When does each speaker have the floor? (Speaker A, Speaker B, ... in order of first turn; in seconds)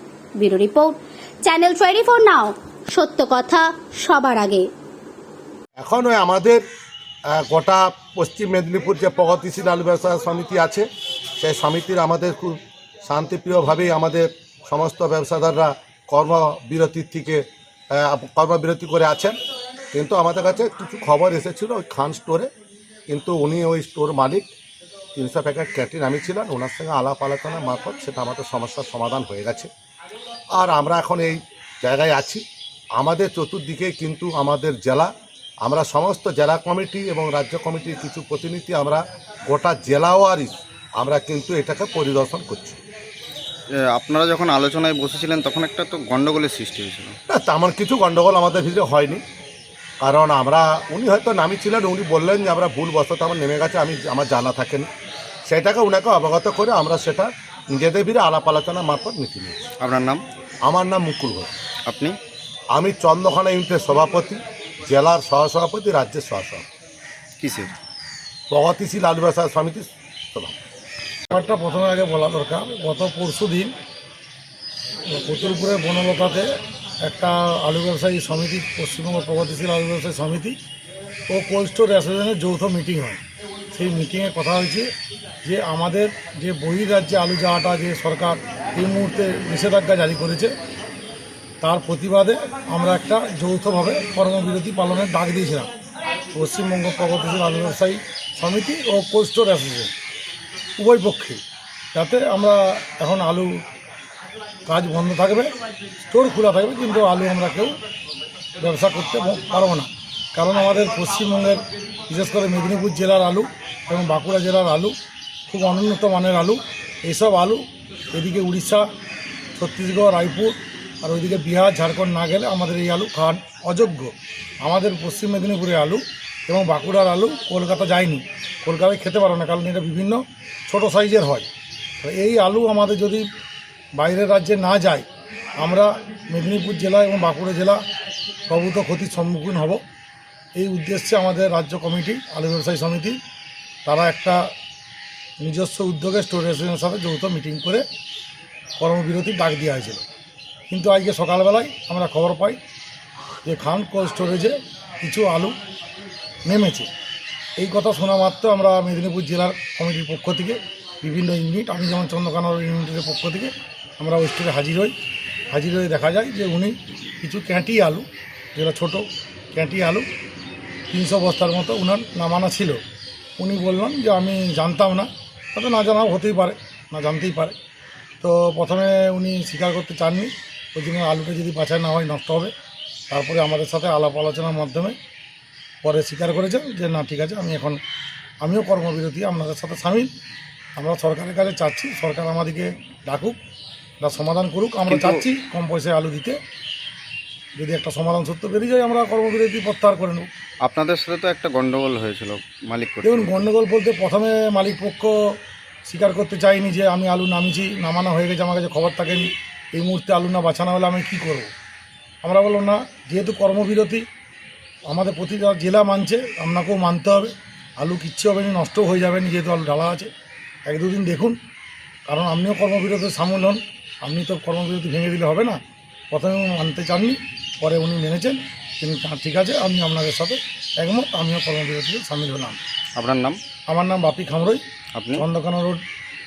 Speaker A: 0.4-4.7
Speaker B: 5.8-6.6, 7.3-10.8, 11.4-19.3, 19.9-22.5, 23.1-24.4, 25.1-29.7, 30.5-32.4, 33.0-35.1, 35.6-42.8, 47.3-49.2, 50.0-54.9, 55.5-59.7, 60.6-61.5, 62.7-66.6, 68.5-70.5
Speaker C: 43.8-47.1, 59.8-60.2, 61.9-62.2, 67.4-67.7, 194.9-195.2, 200.6-203.5, 232.9-233.4, 234.9-235.2
Speaker D: 71.3-73.7, 75.0-76.5, 77.0-80.5, 81.3-83.2, 83.7-84.9, 85.4-90.5, 91.6-95.7, 96.3-99.9, 100.8-101.4, 101.9-103.6, 104.7-105.5, 106.0-107.8, 108.6-114.9, 115.5-118.8, 119.5-124.1, 124.6-131.5, 132.0-133.2, 133.9-135.1, 135.6-137.8, 138.5-139.8, 140.5-143.2, 143.8-144.5, 145.4-147.8, 148.8-150.0, 150.7-152.6, 153.4-155.5, 156.4-156.9, 157.6-164.9, 165.5-170.1, 170.9-172.8, 173.4-177.5, 178.2-182.5, 183.1-184.9, 185.8-187.8, 188.4-190.1, 190.8-193.3, 194.0-196.4, 197.6-200.3, 203.0-205.2, 205.8-211.5, 212.2-214.0, 214.9-220.1, 220.7-221.4, 222.1-225.6, 226.1-232.6, 233.7-234.6, 235.1-235.8